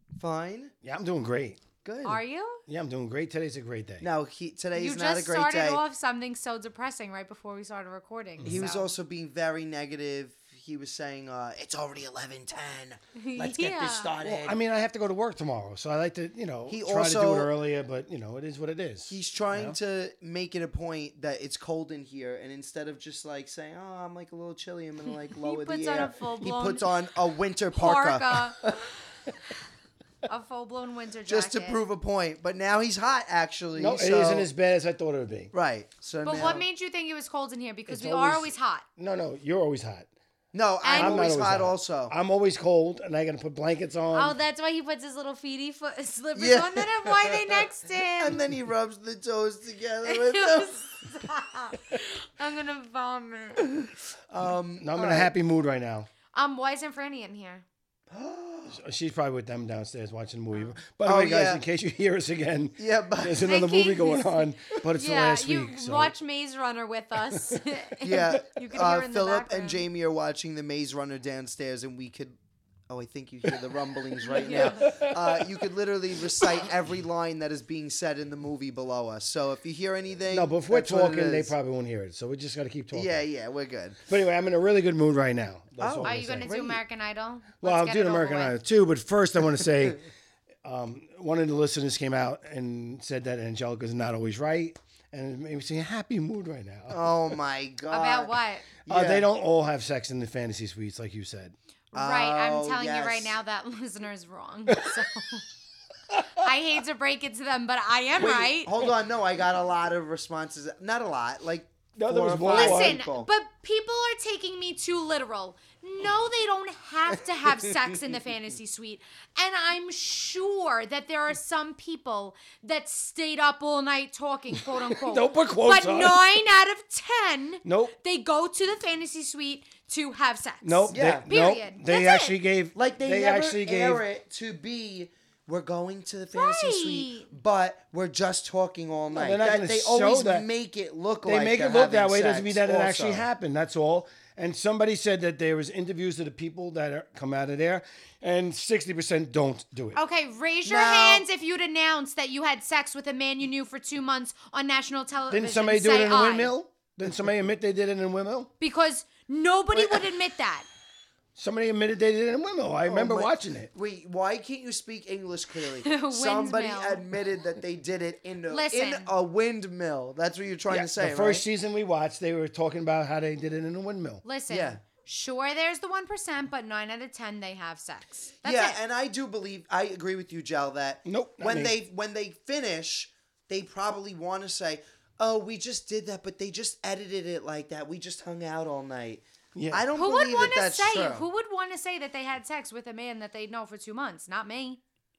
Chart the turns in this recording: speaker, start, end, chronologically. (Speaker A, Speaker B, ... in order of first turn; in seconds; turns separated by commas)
Speaker A: 0.2-0.7, Speaker B: 0.8-1.6, Speaker A: 1.8-2.2, Speaker C: 2.0-2.6, Speaker B: 2.7-4.1, Speaker A: 4.0-5.8, Speaker C: 4.7-8.9, Speaker A: 8.4-14.6, Speaker C: 13.2-14.1, Speaker B: 14.2-19.8, Speaker A: 16.7-17.5, Speaker A: 19.1-28.9, Speaker C: 25.4-26.9, Speaker C: 27.7-28.6, Speaker C: 30.2-31.8, Speaker A: 31.3-34.5, Speaker B: 33.8-35.5, Speaker A: 35.5-36.6, Speaker C: 36.2-38.9, Speaker B: 37.9-40.1, Speaker A: 40.5-42.1, Speaker C: 40.8-41.2, Speaker B: 40.9-44.4, Speaker C: 44.1-48.4, Speaker A: 46.4-47.6, Speaker A: 48.2-50.9, Speaker C: 50.0-53.7, Speaker A: 54.3-55.3, Speaker B: 54.8-56.1, Speaker C: 56.3-57.6, Speaker A: 58.1-58.8, Speaker B: 58.7-66.1, Speaker A: 61.0-61.6, Speaker A: 62.8-63.5, Speaker C: 63.4-69.8, Speaker B: 67.3-67.6, Speaker A: 68.0-72.4, Speaker A: 72.9-81.5, Speaker C: 74.2-74.9, Speaker B: 74.4-75.6, Speaker B: 76.4-76.6, Speaker B: 80.3-83.2, Speaker A: 82.9-84.0, Speaker B: 84.1-86.5, Speaker A: 85.8-86.8, Speaker C: 86.0-88.6, Speaker B: 87.6-90.0, Speaker B: 90.6-97.1, Speaker A: 96.9-99.3, Speaker C: 97.9-98.7, Speaker B: 98.9-101.5, Speaker C: 101.9-105.5, Speaker A: 101.9-103.3, Speaker C: 106.3-108.8, Speaker A: 108.2-113.3, Speaker B: 112.0-113.0, Speaker C: 112.5-132.4, Speaker B: 124.8-126.4, Speaker B: 127.6-128.0, Speaker B: 130.6-134.0, Speaker A: 130.9-131.3, Speaker A: 132.8-143.3, Speaker C: 136.3-137.3, Speaker B: 139.1-140.5, Speaker B: 141.2-150.0, Speaker C: 149.9-156.6, Speaker A: 150.7-151.2, Speaker B: 155.3-158.5, Speaker C: 158.6-160.7, Speaker A: 159.7-160.1, Speaker B: 161.3-163.7, Speaker A: 162.8-171.4, Speaker C: 165.8-167.0, Speaker C: 168.5-169.1, Speaker B: 170.7-174.2, Speaker C: 174.2-178.8, Speaker A: 174.5-174.8, Speaker A: 178.4-191.3, Speaker B: 181.1-181.8, Speaker B: 189.6-189.8, Speaker C: 190.0-194.8